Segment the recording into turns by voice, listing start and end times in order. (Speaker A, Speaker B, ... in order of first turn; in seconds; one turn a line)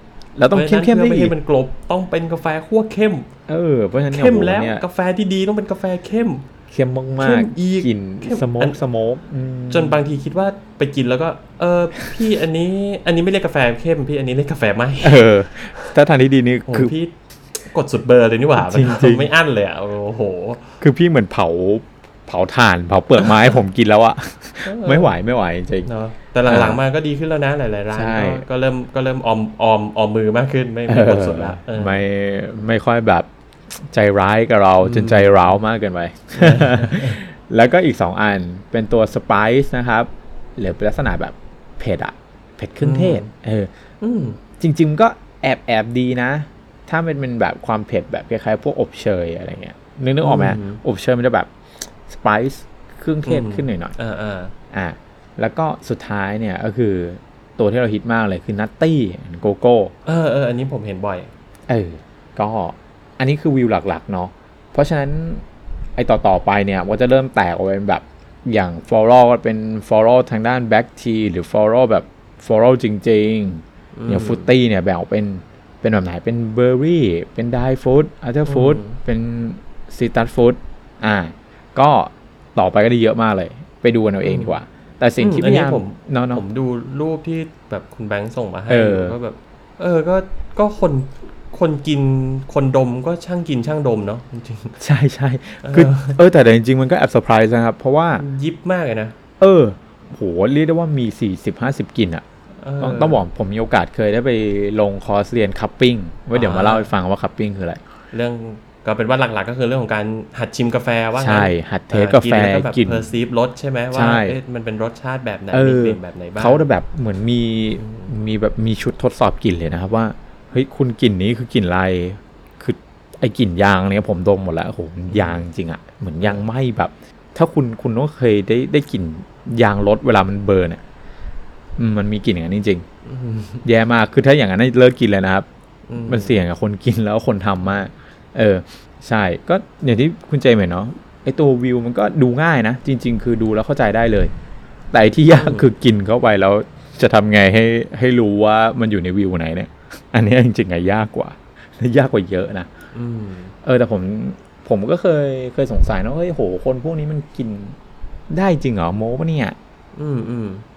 Speaker A: 0.4-1.3
Speaker B: 0.5-3.3
Speaker A: 3.5-4.8
Speaker B: 4.1-6.5
Speaker A: 6.7-10.0
Speaker B: 7.2-8.8
Speaker B: 9.7-15.9
Speaker A: 15.0-16.9
Speaker B: 16.7-20.8
Speaker A: 18.6-19.3
Speaker A: 20.8-25.9
Speaker B: 24.6-25.1
Speaker B: 25.9-32.0
Speaker A: 26.4-26.8
Speaker A: 27.9-28.4
Speaker A: 30.9-33.3
Speaker A: 33.9-43.7
Speaker B: 34.8-35.6
Speaker B: 36.4-37.2
Speaker B: 42.8-43.3
Speaker B: 44.0-44.4
Speaker A: 44.6-54.0
Speaker B: 50.2-50.8
Speaker B: 53.2-54.5
Speaker A: 54.7-59.9
Speaker B: 60.0-61.3
Speaker A: 61.7-65.4
Speaker A: 66.0-86.4
Speaker B: 74.0-74.5
Speaker B: 78.5-79.0
Speaker B: 84.2-84.6
Speaker B: 85.2-94.8
Speaker A: 88.7-89.2
Speaker A: 94.8-98.2
Speaker B: 95.6-96.2
Speaker B: 98.2-99.2
Speaker A: 99.4-102.2
Speaker B: 102.6-103.2
Speaker A: 102.8-107.8
Speaker B: 106.3-106.9
Speaker B: 108.1-116.7
Speaker A: 111.2-113.1
Speaker A: 113.9-114.4
Speaker A: 115.5-130.8
Speaker B: 117.8-118.1
Speaker B: 125.1-125.4
Speaker B: 126.2-126.5
Speaker A: 131.8-132.8
Speaker B: 133.1-133.7
Speaker A: 133.7-135.5
Speaker B: 135.9-136.4
Speaker A: 136.0-144.3
Speaker A: 144.9-152.7
Speaker B: 145.3-145.7
Speaker B: 152.9-153.5
Speaker A: 153.6-157.8
Speaker A: 158.3-159.6
Speaker B: 160.0-160.7